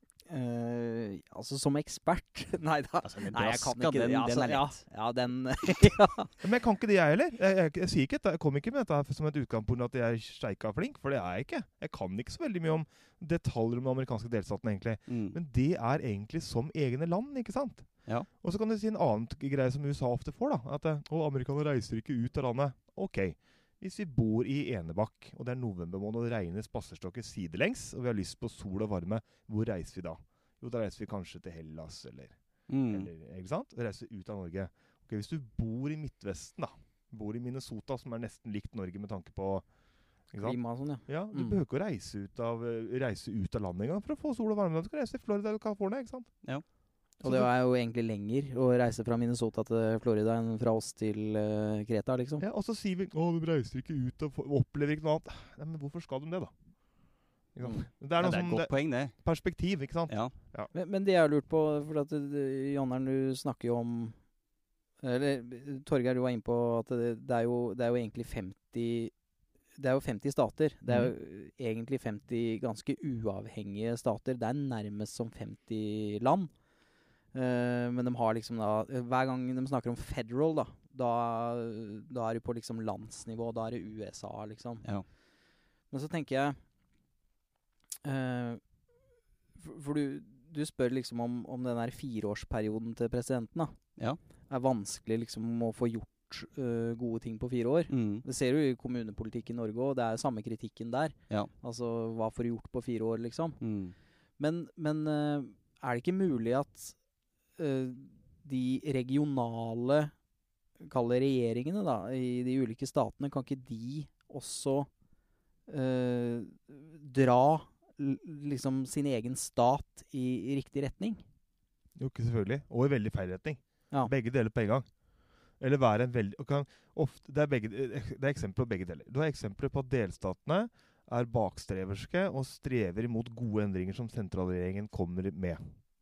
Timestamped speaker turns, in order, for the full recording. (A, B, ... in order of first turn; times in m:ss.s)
0:00.3-0:06.3 A
0:03.0-0:04.8 B
0:06.4-0:39.7 C
0:15.1-0:15.4 B
0:32.7-0:33.1 B
0:40.3-0:46.5 C
0:40.4-0:41.6 A
0:47.2-0:52.4 A
0:47.2-0:47.5 C
0:52.4-0:56.6 C
0:57.5-1:00.7 C
0:58.2-0:59.2 B
1:00.1-1:00.3 B
1:00.7-1:04.2 A
1:05.0-1:09.1 A
1:09.8-1:16.5 A
1:17.3-1:24.9 A
1:25.9-1:26.6 A
1:28.0-1:28.6 A
1:29.6-1:33.8 A
1:34.5-1:43.6 A
1:37.9-1:38.2 B
1:43.6-1:43.9 B
1:44.4-1:47.0 A
1:47.6-1:50.1 A
1:50.8-1:54.9 A
1:55.7-2:01.2 A
2:02.0-2:04.9 C
2:05.6-2:15.7 C